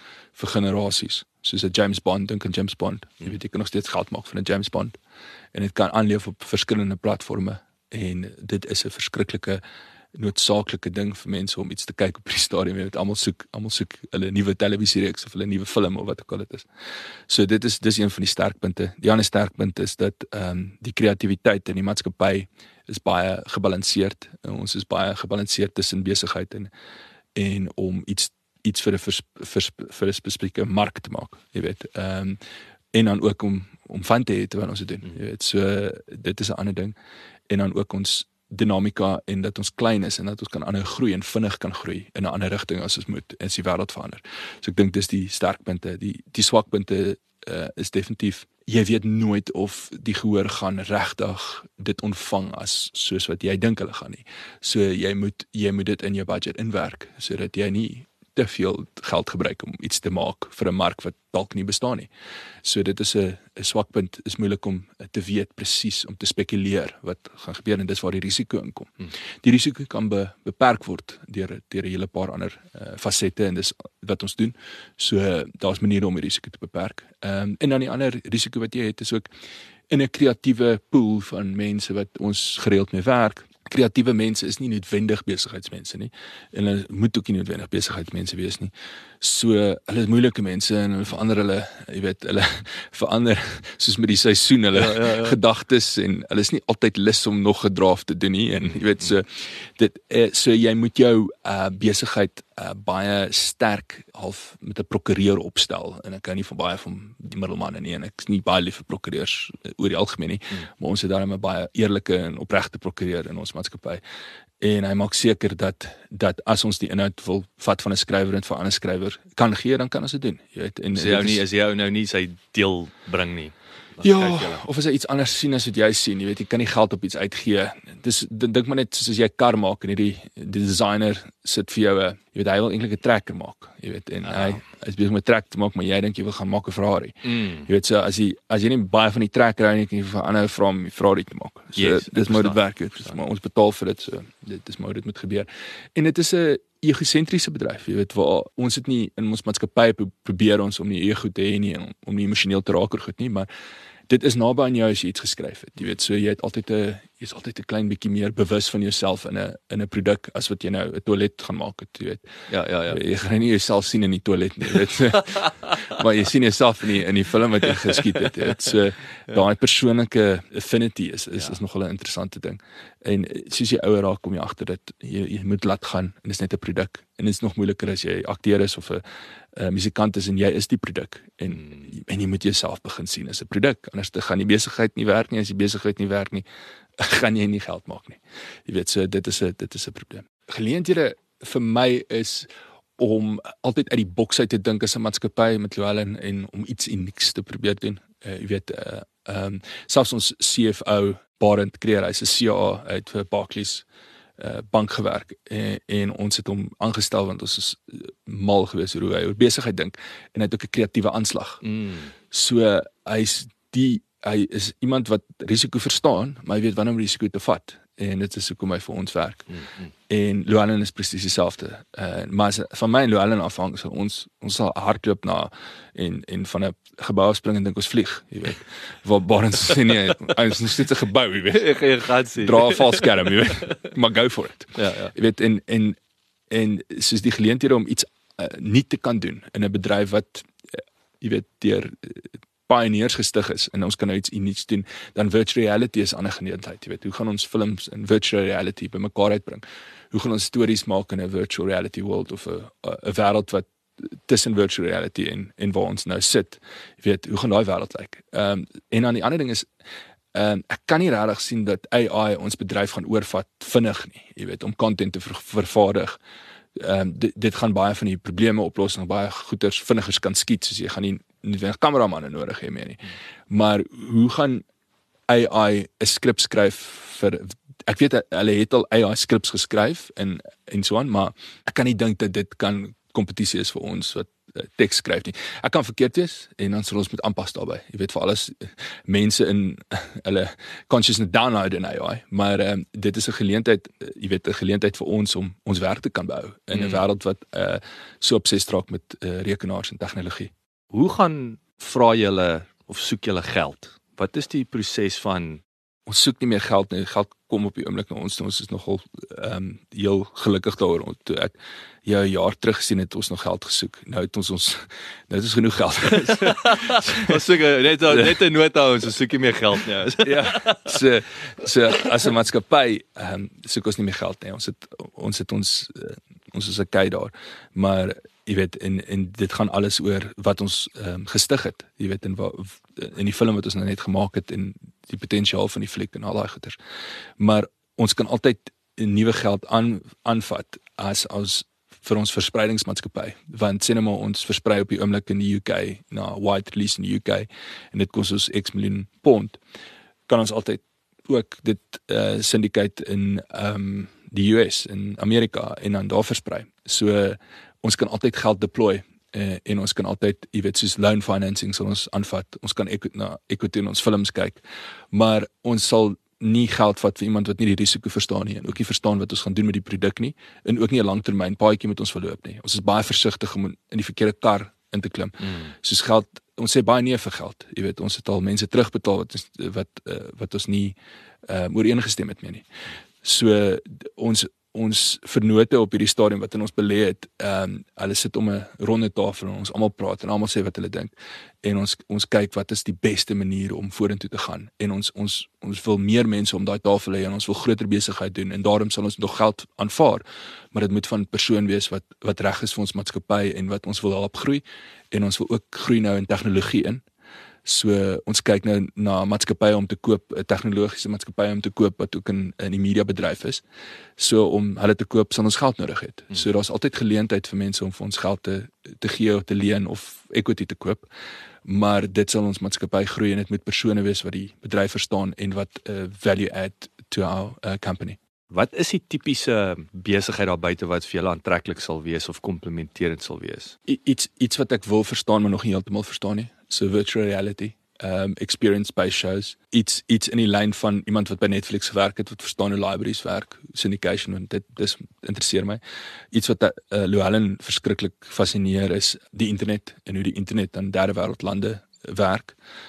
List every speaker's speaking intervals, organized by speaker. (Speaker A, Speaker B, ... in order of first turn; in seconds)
Speaker A: 0.3-5.0, 5.5-9.6, 10.1-16.7, 17.3-26.7, 27.4-32.4, 32.9-37.0, 37.5-62.1, 62.6-79.2, 79.9-114.0, 114.6-121.4, 124.0-153.5, 154.1-162.2, 162.9-179.0, 179.6-186.4, 187.0-203.9, 204.4-211.6, 212.3-219.5, 220.1-231.7, 232.3-236.0, 236.5-259.7, 260.3-266.2, 266.8-274.6, 275.3-300.5, 306.1-317.4, 320.2-336.8, 337.4-349.6, 350.3-381.0, 381.5-382.7, 383.2-391.1, 391.6-407.0, 407.6-413.6, 414.2-421.1, 421.6-428.2, 433.9-445.8, 446.3-452.6
Speaker B: 94.7-95.4, 120.9-124.6, 134.2-134.6, 137.3-137.7, 141.8-142.6, 162.5-163.0, 211.6-212.1, 231.5-233.3, 234.8-235.1, 296.7-297.0, 300.9-305.6, 316.3-321.0, 428.5-433.8